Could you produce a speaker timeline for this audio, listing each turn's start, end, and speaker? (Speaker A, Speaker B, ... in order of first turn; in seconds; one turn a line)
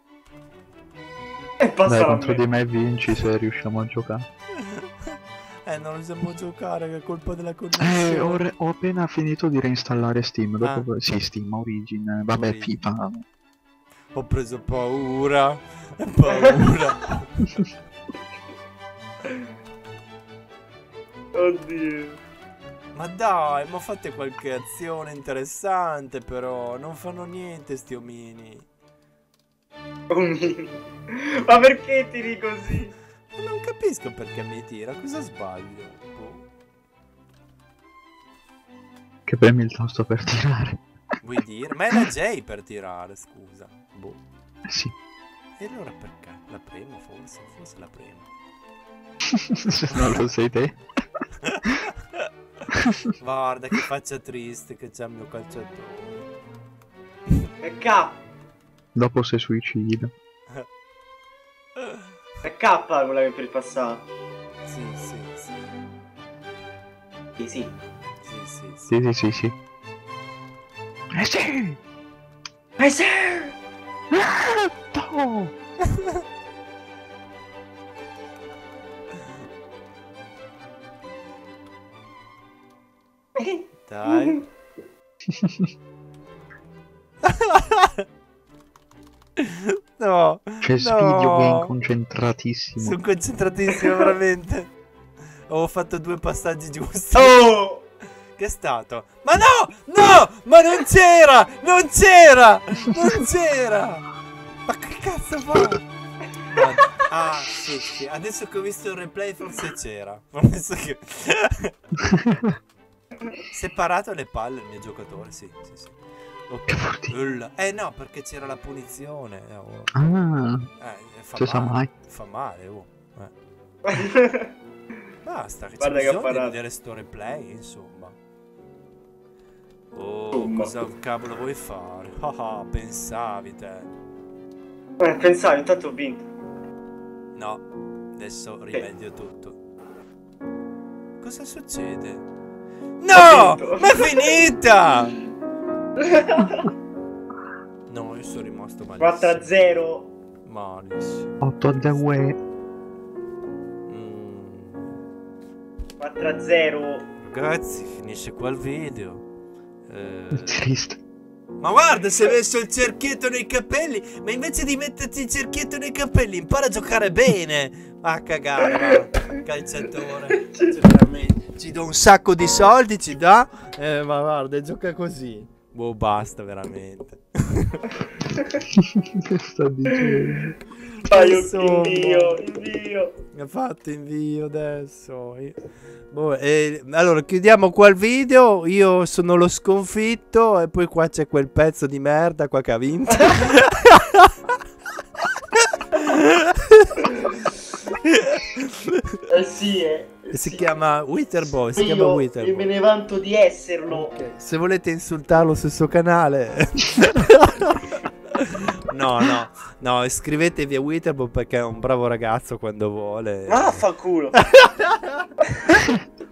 Speaker A: 1.6-2.4
Speaker B: 1.9-4.3
Speaker C: 4.6-8.5
Speaker B: 7.8-13.2
Speaker C: 10.6-10.9
Speaker C: 12.3-12.8
Speaker C: 14.1-17.4
Speaker A: 16.3-16.6
Speaker A: 21.3-22.2
Speaker C: 22.9-28.7
Speaker A: 30.1-32.9
Speaker C: 33.3-36.5
Speaker B: 39.3-40.8
Speaker C: 41.2-44.2
Speaker B: 44.7-44.9
Speaker C: 45.6-48.3
Speaker B: 49.3-51.2
Speaker C: 49.9-50.2
Speaker C: 51.4-52.3
Speaker B: 52.7-53.1
Speaker C: 53.0-56.3
Speaker A: 57.6-58.2
Speaker B: 59.0-60.1
Speaker C: 61.8-62.0
Speaker A: 62.4-64.0
Speaker C: 64.7-65.8
Speaker A: 67.4-67.7
Speaker C: 67.5-69.0
Speaker B: 68.9-69.5
Speaker B: 71.1-71.8
Speaker A: 72.8-73.5
Speaker B: 74.1-75.5
Speaker A: 83.4-84.4
Speaker C: 83.9-84.4
Speaker C: 87.2-88.0
Speaker C: 89.4-91.7
Speaker B: 90.6-93.0
Speaker C: 92.8-94.7
Speaker C: 95.5-97.4
Speaker A: 97.1-97.8
Speaker C: 98.4-104.1
Speaker C: 104.7-105.9
Speaker C: 106.5-111.8
Speaker B: 112.1-112.6
Speaker C: 113.5-119.9
Speaker B: 116.7-117.1
Speaker B: 120.0-120.7
Speaker C: 120.8-123.3
Speaker B: 121.4-121.9
Speaker A: 123.9-124.5
Speaker C: 125.2-128.2
Speaker A: 125.8-126.6
Speaker C: 129.9-133.9
Speaker A: 130.3-130.8
Speaker A: 135.0-136.2
Speaker C: 137.3-137.7
Speaker C: 138.2-139.6
Speaker C: 141.2-142.3
Speaker C: 143.0-145.2
Speaker A: 143.1-144.4
Speaker A: 146.0-146.7
Speaker C: 147.9-149.7
Speaker A: 149.0-150.1
Speaker C: 150.4-152.1
Speaker B: 151.4-152.4
Speaker C: 153.9-154.9
Speaker A: 156.0-157.1
Speaker C: 157.2-159.3
Speaker C: 159.9-160.6
Speaker B: 160.3-161.0
Speaker C: 161.6-177.9
Speaker A: 170.4-170.8
Speaker B: 178.7-180.6
Speaker A: 179.9-180.4
Speaker A: 181.1-183.1
Speaker C: 181.1-182.4
Speaker C: 183.3-185.6
Speaker C: 186.1-194.3
Speaker A: 193.1-193.4
Speaker C: 195.5-197.0
Speaker C: 197.9-199.1
Speaker A: 199.3-200.8
Speaker C: 200.3-202.7
Speaker A: 201.8-204.1
Speaker C: 203.9-213.8
Speaker A: 213.5-214.4
Speaker C: 214.4-215.8